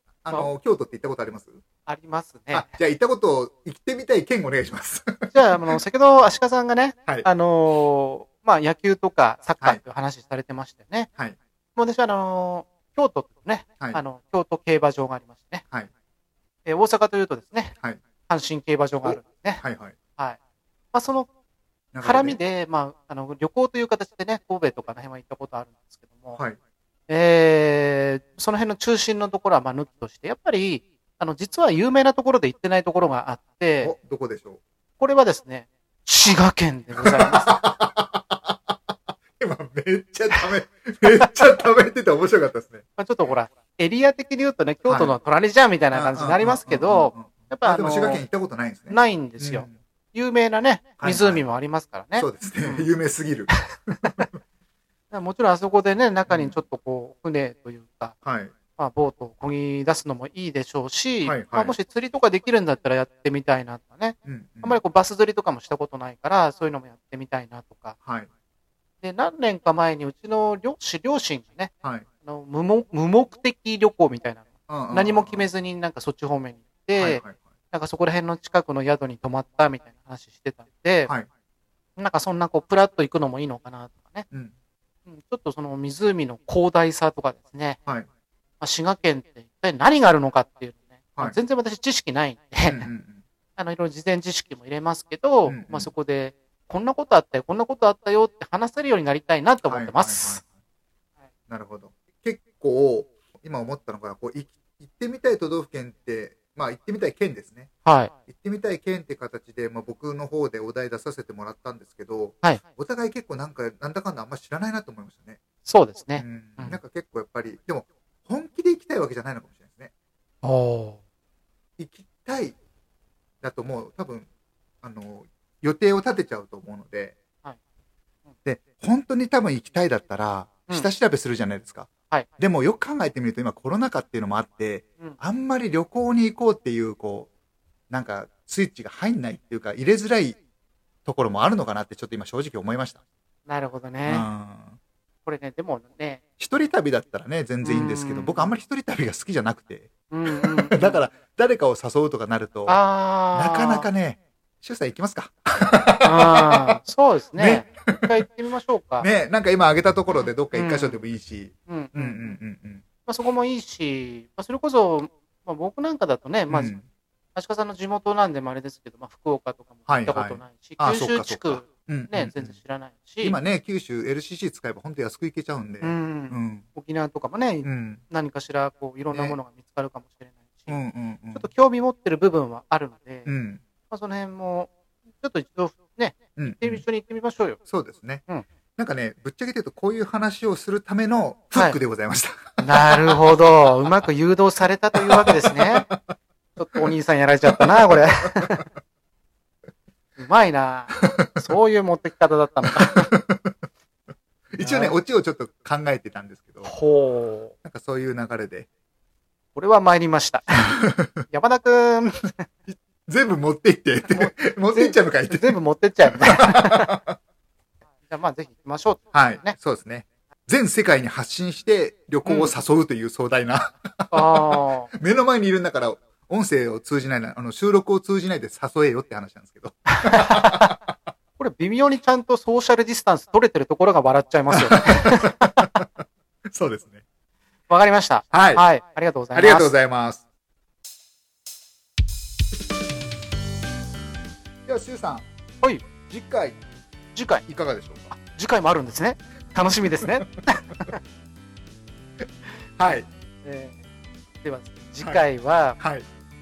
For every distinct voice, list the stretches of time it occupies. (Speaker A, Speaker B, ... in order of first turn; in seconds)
Speaker A: 0.2-1.6, 2.5-5.7, 19.0-19.9, 21.9-22.4, 33.8-34.6, 37.0-38.8, 39.4-42.8, 44.9-45.1, 45.9-49.7, 51.0-51.4, 52.2-54.3, 56.3-56.6, 58.2-58.5, 61.2-61.8, 64.3-64.8, 74.7-75.4, 77.0-77.4, 92.7-93.2, 95.5-95.9, 99.7-100.5, 101.5-107.7, 108.3-115.4, 116.2-119.9, 121.8-122.6, 123.4-124.3, 124.8-127.2, 128.4-137.3, 137.9-140.4, 141.1-143.0, 144.1-144.8, 146.4-152.8, 153.3-156.7, 157.4-158.1, 159.0-162.8, 166.5-166.8, 169.9-172.6, 173.2-176.7, 177.6-178.0, 179.1-179.4, 180.7-181.4, 183.3-183.6, 186.4-186.8, 187.7-188.2, 188.8-193.2, 195.0-196.1, 197.5-198.4, 202.9-203.6, 204.5-206.7, 207.6-208.7, 210.6-211.2, 213.1-215.6, 216.1-217.2, 219.1-230.8, 234.5-235.9, 236.5-237.0, 238.3-238.6, 239.3-240.2, 244.7-245.3, 246.1-246.6, 247.5-248.1, 252.8-253.1, 255.8-256.1
Speaker B: 1.9-2.7, 5.3-11.1, 11.8-15.6, 16.7-17.8, 18.3-19.6, 20.9-21.3, 22.0-26.4, 27.1-33.9, 35.0-37.6, 43.0-48.2, 48.9-52.9, 55.1-58.1, 58.8-68.0, 69.0-71.7, 72.2-81.1, 82.0-84.3, 85.1-87.8, 88.6-92.9, 93.6-100.4, 107.8-108.1, 115.7-116.8, 120.4-121.0, 143.5-144.3, 145.3-146.2, 147.6-148.5, 150.1-151.0, 152.7-153.9, 156.0-159.1, 160.5-161.0, 161.7-162.4, 163.1-166.7, 167.3-173.4, 175.8-180.8, 181.3-183.3, 183.9-187.6, 192.6-195.9, 196.6-198.7, 200.2-203.1, 204.6-205.0, 206.7-207.5, 209.6-210.8, 211.3-212.5, 214.1-217.0, 218.0-219.6, 222.2-222.5, 224.1-224.9, 229.9-230.8, 231.4-235.8, 237.7-239.8, 247.1-247.5, 248.1-251.0, 253.4-253.8, 254.4-255.8